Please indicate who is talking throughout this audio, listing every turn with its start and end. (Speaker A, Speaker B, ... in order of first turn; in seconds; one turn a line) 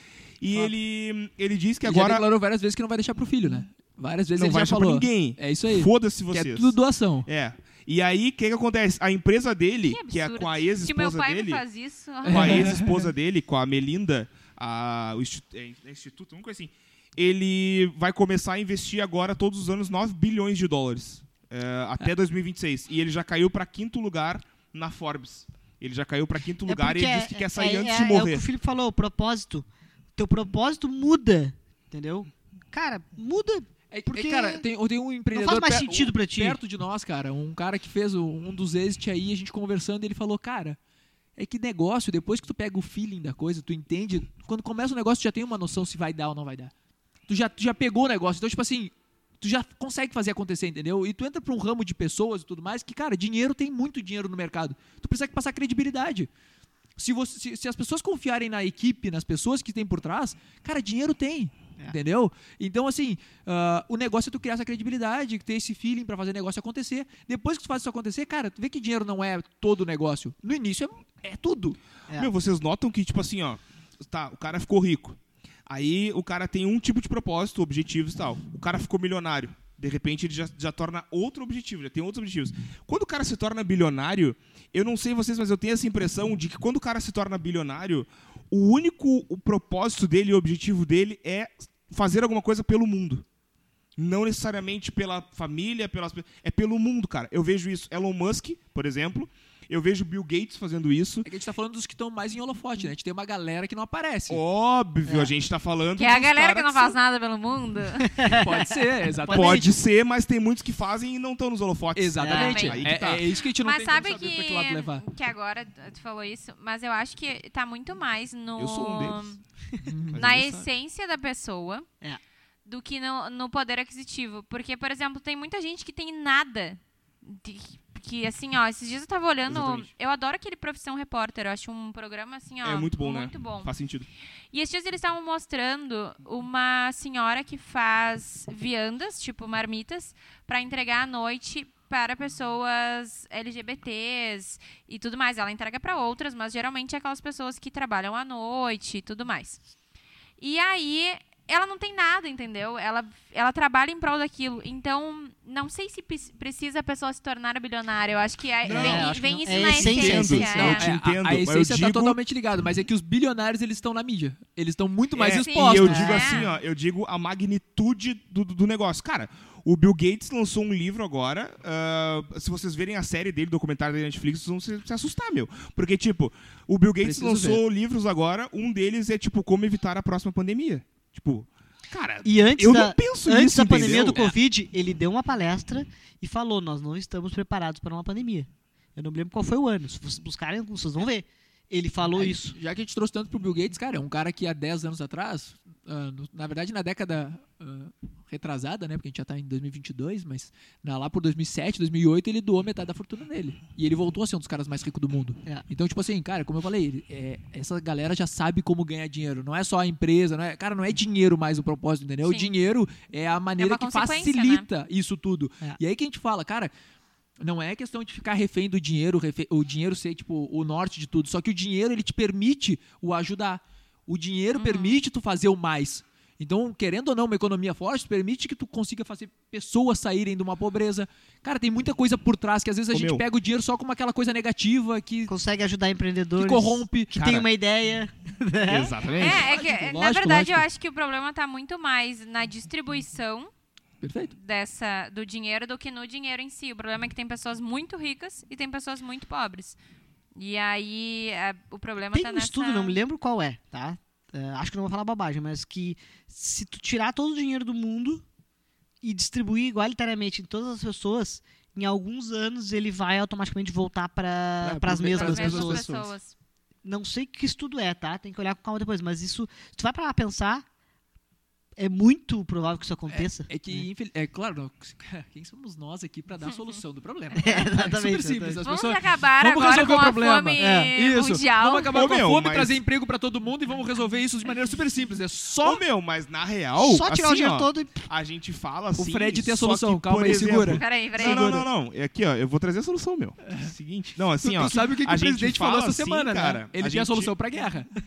Speaker A: 0.4-2.2
Speaker B: 1.8-7.3
Speaker A: 4.4-11.6
Speaker C: 9.8-12.7
Speaker B: 12.2-13.1
Speaker A: 12.3-28.4
Speaker D: 26.7-34.6
Speaker B: 33.9-40.8
Speaker D: 35.3-36.6
Speaker B: 41.4-46.7
Speaker B: 47.3-56.3
Speaker B: 57.0-71.8
Speaker A: 72.1-93.2
Speaker A: 94.0-101.3
Speaker B: 101.2-104.4
Speaker A: 104.3-107.0
Speaker D: 105.1-105.3
Speaker C: 106.0-108.2
Speaker D: 108.0-109.7
Speaker B: 108.3-109.8
Speaker A: 109.3-113.3
Speaker B: 112.0-115.1
Speaker D: 112.2-112.6
Speaker C: 112.4-112.8
Speaker C: 113.5-119.4
Speaker A: 118.6-119.3
Speaker B: 119.8-120.7
Speaker A: 120.1-120.5
Speaker C: 120.1-121.9
Speaker C: 122.7-133.7
Speaker A: 129.5-129.9
Speaker A: 132.6-134.1
Speaker C: 134.5-149.6
Speaker C: 150.4-160.9
Speaker A: 158.6-162.2
Speaker D: 158.7-160.6
Speaker B: 160.4-166.5
Speaker A: 165.1-184.3
Speaker C: 165.3-166.5
Speaker D: 165.8-166.3
Speaker B: 177.0-177.6
Speaker D: 182.2-192.6
Speaker B: 192.1-216.7
Speaker C: 212.2-212.5
Speaker C: 213.6-214.7
Speaker B: 217.4-235.3
Speaker C: 224.6-225.0
Speaker A: 232.9-233.2
Speaker D: 235.3-239.0
Speaker B: 236.4-237.1
Speaker A: 237.1-237.5
Speaker A: 238.7-239.4
Speaker B: 239.2-240.7
Speaker C: 239.2-243.5
Speaker B: 244.0-244.3
Speaker C: 244.3-249.8
Speaker C: 250.4-253.0
Speaker D: 252.1-258.2
Speaker D: 259.0-265.9
Speaker B: 264.6-266.1
Speaker C: 265.1-266.3
Speaker D: 266.8-270.6
Speaker D: 271.8-273.9
Speaker B: 273.1-285.8
Speaker D: 277.4-278.6
Speaker C: 278.6-282.0
Speaker D: 280.6-280.9
Speaker A: 281.9-282.8
Speaker A: 285.6-297.3
Speaker D: 286.8-288.0
Speaker B: 289.0-291.7
Speaker C: 290.7-291.6
Speaker B: 293.5-293.7
Speaker B: 294.4-297.9